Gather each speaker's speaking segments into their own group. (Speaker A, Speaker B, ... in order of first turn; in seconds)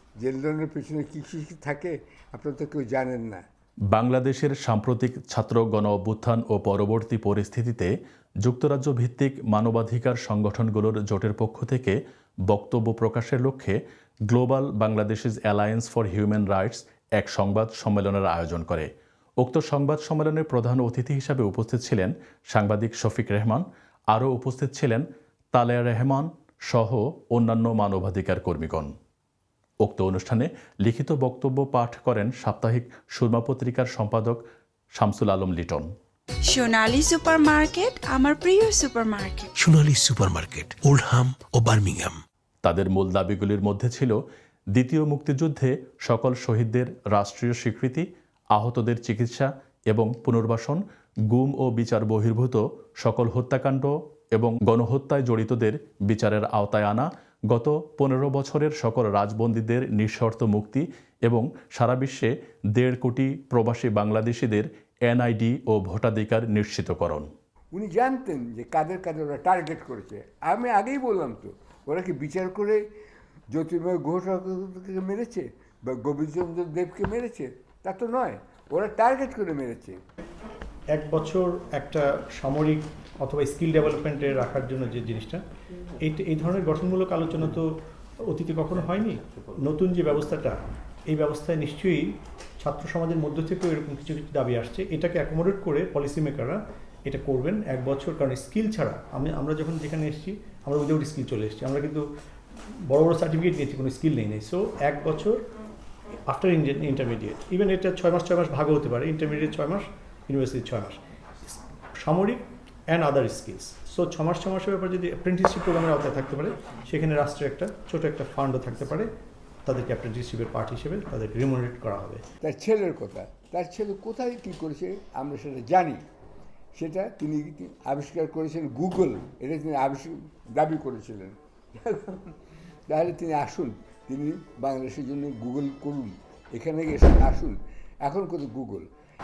Speaker A: 0.2-3.4, 67.7-72.8, 73.5-80.0, 122.4-126.0, 126.8-132.3, 132.9-138.9
Speaker B: 3.9-7.9, 8.4-12.0, 12.5-13.8, 14.3-18.9, 19.4-28.9, 29.8-34.4, 35.0-35.9, 42.6-44.2, 44.8-67.3
Speaker C: 36.5-39.5
Speaker D: 39.6-42.2
Speaker E: 80.9-87.7, 88.2-102.0, 102.7-105.4, 106.3-119.1, 119.7-122.2